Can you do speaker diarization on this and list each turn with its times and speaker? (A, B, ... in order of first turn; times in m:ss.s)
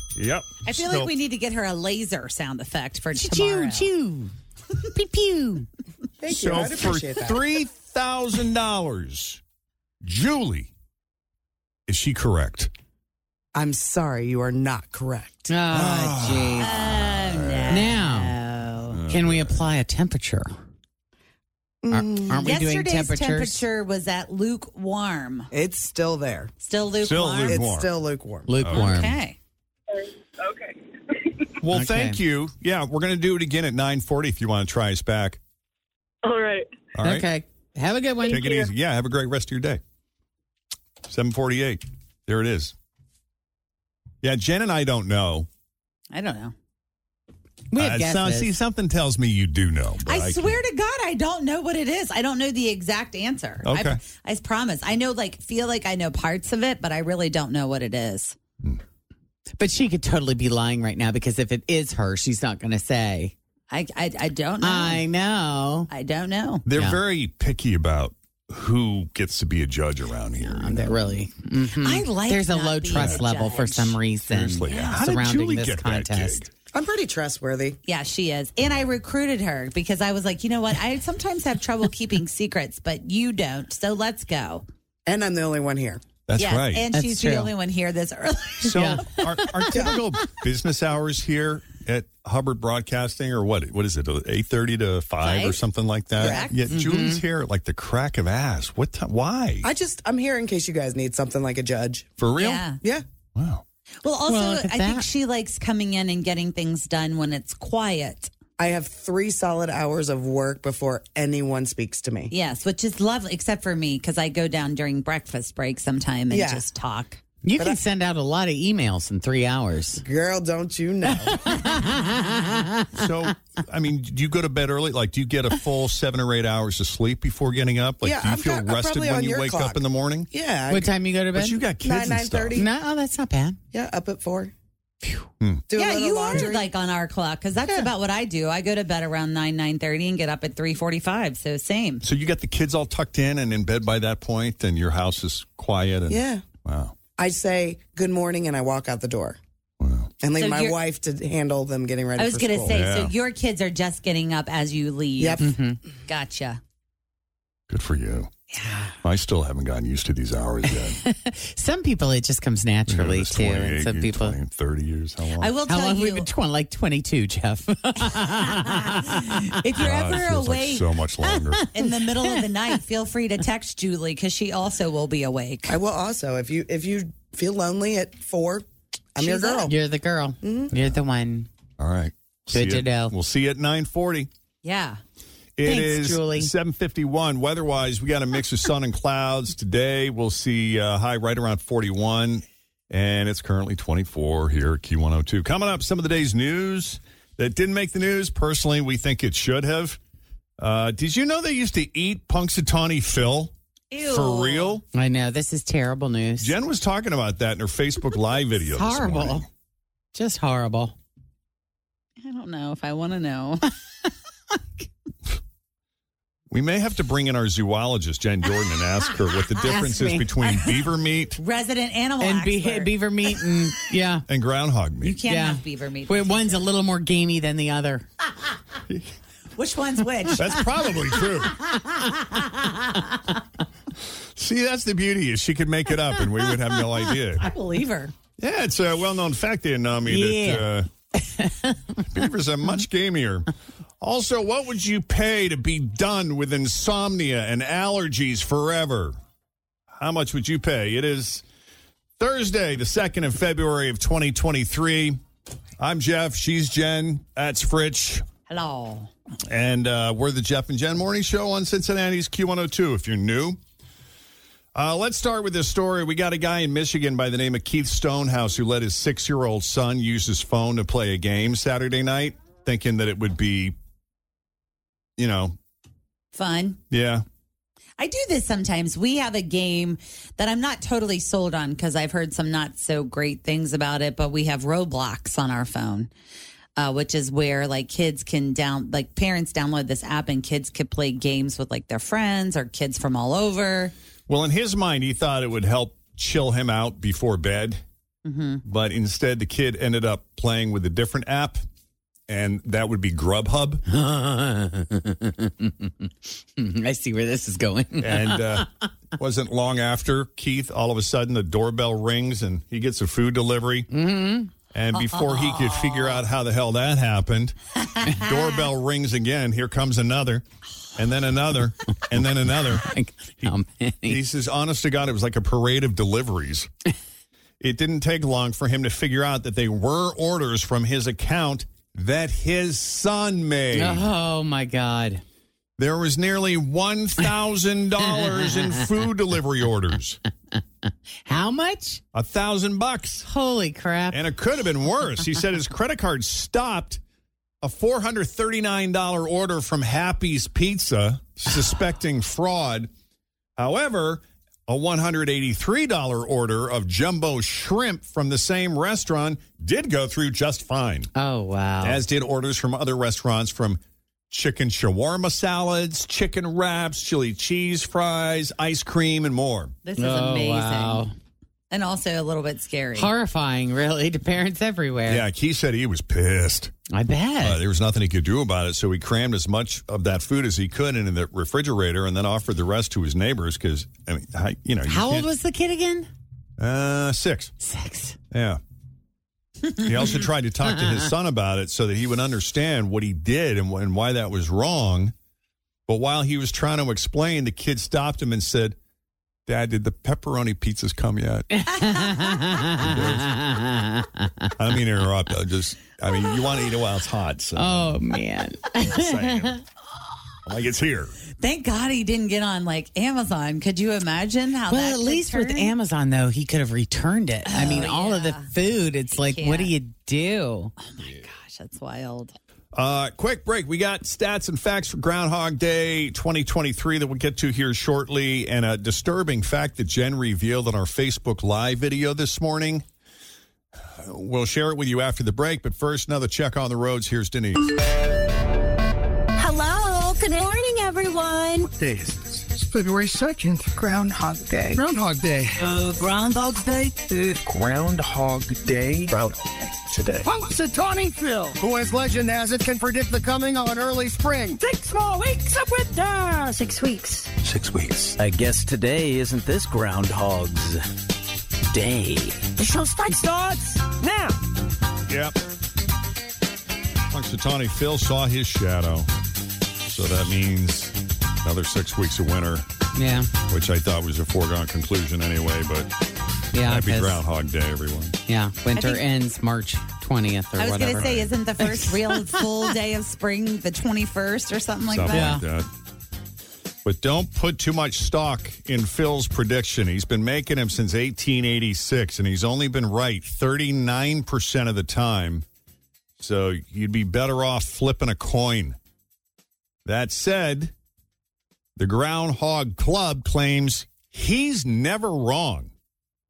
0:00.1-0:01.1 A
0:00.6-0:03.9 B
0:03.1-0:04.3 C
0:04.9-0:05.7 C
0:06.2-0:07.4 D
0:06.3-0:09.4 A
0:10.0-0:10.7 A
0:11.9-0:12.7 A
0:13.5-0:15.6 D
0:15.5-0:16.7 C
0:15.7-0:17.9 A
0:16.6-0:19.0 B
0:17.7-0:18.3 C
0:18.9-0:19.7 A
0:19.1-0:20.5 C
0:21.8-0:22.4 D
0:21.9-0:23.6 C
0:22.4-0:25.5 B
0:25.5-0:26.5 D
0:26.6-0:27.6 B
0:27.0-0:27.9 A
0:27.5-0:28.5 D
0:28.5-0:29.2 C
0:28.6-0:28.9 A
0:28.7-0:29.4 B
0:29.9-0:31.3 E
0:31.6-0:35.4 A
0:31.7-0:32.2 C
0:36.2-0:36.7 E
0:37.0-0:37.3 A
0:37.0-0:38.6 C
0:38.3-0:39.8 A
0:38.4-0:38.6 E
0:41.0-0:42.8 A
0:44.2-0:45.5 A
0:46.1-0:46.5 B
0:47.7-0:48.5 C
0:47.8-0:50.6 A
0:50.1-0:58.4 B
0:53.6-0:54.0 A
0:59.6-1:03.3 C
1:03.7-1:05.0 B
1:04.6-1:05.9 C
1:05.9-1:06.6 B
1:06.7-1:11.0 A
1:06.8-1:07.0 C
1:10.4-1:16.4 C
1:11.8-1:14.0 B
1:13.0-1:13.2 A
1:14.3-1:16.5 A
1:14.7-1:15.0 B
1:16.7-1:17.8 D
1:17.9-1:24.6 B
1:25.1-1:26.0 D
1:26.3-1:26.8 A
1:26.4-1:28.9 B
1:26.9-1:27.5 C
1:28.6-1:39.7 A
1:28.7-1:29.9 C
1:35.2-1:35.6 B
1:36.2-1:36.4 D
1:36.2-1:36.6 B
1:36.7-1:37.2 C
1:39.6-1:42.1 D
1:42.2-1:42.6 A
1:42.4-1:42.8 B
1:43.4-1:43.6 A
1:44.0-1:48.3 B
1:44.3-1:45.1 C
1:48.6-1:52.3 D
1:52.3-1:57.2 B
1:56.3-1:56.6 D
1:57.4-2:00.0 C
2:00.0-2:01.5 D
2:01.2-2:03.0 C
2:02.9-2:10.3 A
2:08.0-2:09.8 D
2:10.3-2:10.9 D
2:10.7-2:11.6 C
2:11.4-2:12.6 A
2:11.8-2:12.6 D
2:12.6-2:13.6 C
2:13.7-2:14.5 D
2:15.7-2:16.7 D
2:15.7-2:22.0 B
2:17.6-2:17.9 D
2:22.0-2:27.0 A
2:26.1-2:26.4 D
2:27.2-2:29.4 D
2:29.8-2:30.1 A
2:30.2-2:32.7 D
2:30.4-2:30.8 B
2:32.2-2:35.4 B
2:32.7-2:33.1 A
2:35.2-2:35.4 D
2:35.4-2:35.8 C
2:36.1-2:36.6 B
2:37.7-2:38.3 A
2:38.5-2:39.0 B
2:39.0-2:41.0 A
2:41.0-2:44.4 C
2:42.9-2:45.5 A
2:45.4-2:46.3 B
2:45.7-2:49.5 C
2:48.5-2:50.8 B
2:49.8-2:51.7 A
2:51.7-2:55.8 B
2:51.8-2:52.4 C
2:55.7-2:59.8 D
2:59.2-2:59.7 B
2:59.6-3:01.5 C
3:00.4-3:00.7 D
3:01.8-3:04.3 A
3:02.5-3:03.1 C
3:04.6-3:05.0 B
3:05.6-3:20.0 A
3:05.6-3:06.5 C
3:20.6-3:24.8 A
3:23.9-3:24.8 B
3:24.9-3:26.5 C
3:26.4-3:29.5 A
3:28.7-3:29.5 C
3:30.1-3:31.0 C
3:32.2-3:33.7 B
3:36.5-3:41.4 A
3:39.6-3:40.4 C
3:41.4-3:42.9 B
3:42.2-3:44.2 C
3:44.3-3:45.2 A
3:45.0-3:46.6 B
3:45.3-3:48.1 C
3:49.6-3:50.7 B
3:50.4-3:51.5 A
3:51.7-3:53.0 C
3:54.4-3:57.5 A
3:57.3-3:58.1 B
3:58.4-4:00.9 A
4:00.1-4:02.1 C
4:02.1-4:03.5 A
4:04.0-4:09.2 A
4:09.9-4:11.4 A
4:12.2-4:15.2 A
4:15.8-4:18.3 A
4:18.5-4:19.1 B
4:19.5-4:23.6 A
4:24.8-4:33.8 A
4:35.2-4:35.6 A
4:36.3-4:36.8 B
4:36.9-4:37.2 A
4:38.0-4:46.1 B
4:46.8-4:53.9 B
4:54.3-4:57.8 A
4:58.2-4:58.6 B
4:58.6-5:01.6 A
5:02.3-5:03.8 A
5:03.9-5:08.7 C
5:08.0-5:13.9 A
5:13.9-5:14.5 C
5:14.7-5:20.4 A
5:15.0-5:16.2 B
5:21.0-5:22.8 A
5:22.6-5:24.2 C
5:24.1-5:26.7 A
5:27.6-5:34.1 A
5:33.7-5:35.2 C
5:35.8-5:40.2 A
5:38.1-5:38.8 C
5:41.3-5:42.0 C
5:42.1-5:43.3 A
5:43.2-5:44.2 C
5:44.1-5:47.0 A
5:47.6-5:52.9 A
5:53.6-6:01.1 A
6:01.1-6:02.0 C
6:01.8-6:09.7 A
6:09.8-6:11.1 B
6:10.0-6:11.1 C
6:11.7-6:13.1 B
6:13.0-6:15.2 C
6:15.1-6:16.7 A
6:16.9-6:17.6 C
6:17.4-6:25.3 A
6:24.9-6:26.1 C
6:26.6-6:27.5 A
6:27.6-6:28.2 C
6:28.3-6:28.6 A
6:29.8-6:35.1 A
6:30.7-6:31.1 C
6:35.9-6:38.8 A
6:39.5-6:41.5 A
6:41.5-6:44.5 C
6:42.8-6:43.3 A
6:44.6-6:48.0 A
6:47.6-6:49.6 C
6:48.8-6:49.6 A
6:50.4-6:51.2 A
6:51.4-6:55.7 B
6:54.7-7:00.7 C
6:57.5-6:58.5 B
6:59.1-6:59.7 B
7:00.8-7:02.4 B
7:02.8-7:12.8 A
7:14.0-7:17.7 A
7:19.4-7:21.7 F
7:21.6-7:26.2 G
7:27.0-7:36.6 G
7:37.4-7:38.2 G
7:38.2-7:40.7 H
7:41.8-7:42.3 H
7:42.7-7:44.4 G
7:45.1-7:45.4 A
7:47.1-7:49.1 A
7:49.9-7:52.7 A
7:53.0-7:53.3 C
7:53.5-7:55.9 A
7:56.5-7:57.2 C
7:56.6-7:58.2 A
7:58.3-8:02.6 C
7:58.8-7:59.0 B
8:00.6-8:05.4 B
8:04.9-8:05.7 A
8:05.1-8:05.4 C
8:06.8-8:15.4 A
8:16.2-8:18.8 A
8:19.8-8:20.7 A
8:21.8-8:25.7 A